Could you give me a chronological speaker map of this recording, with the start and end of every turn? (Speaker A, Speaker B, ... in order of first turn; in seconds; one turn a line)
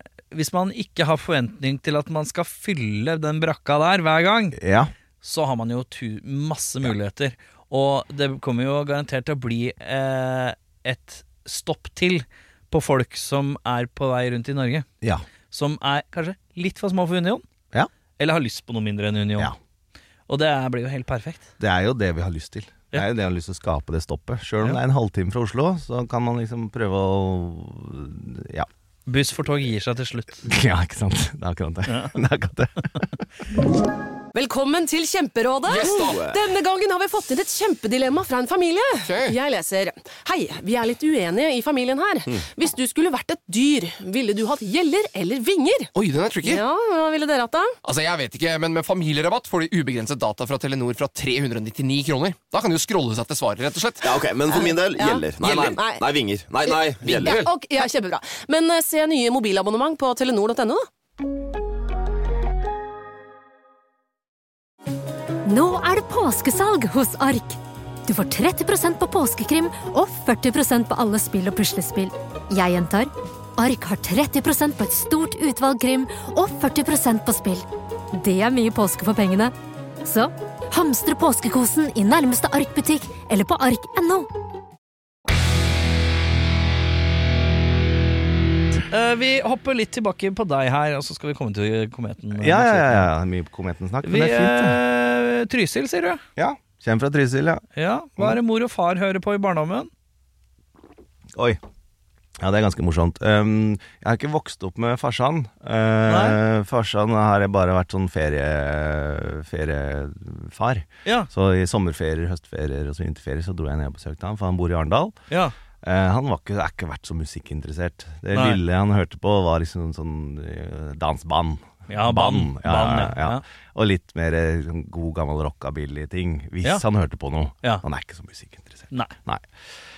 Speaker A: 0.3-4.6
Speaker B: 4.5-4.9
Speaker A: 5.2-14.9
Speaker A: 15.5-17.4
Speaker A: 18.2-19.5
Speaker A: 20.3-21.5
Speaker B: 21.6-28.7
Speaker A: 29.1-30.4
Speaker B: 30.4-33.1
Speaker A: 31.9-32.2
Speaker C: 34.3-47.8
Speaker D: 35.7-36.4
Speaker E: 35.7-36.2
Speaker E: 39.0-39.4
Speaker E: 45.9-46.6
Speaker E: 47.8-54.1
Speaker D: 54.0-57.4
Speaker C: 54.5-56.0
Speaker C: 56.6-60.9
Speaker E: 57.1-57.5
Speaker F: 65.5-84.3
Speaker A: 88.9-93.1
Speaker B: 92.3-94.8
Speaker A: 94.0-96.2
Speaker B: 96.4-97.6
Speaker A: 97.8-99.9
Speaker B: 101.3-101.6
Speaker B: 102.4-115.2
Speaker A: 106.1-106.4
Speaker B: 115.8-129.4
Speaker A: 118.3-118.6
Speaker A: 121.9-123.4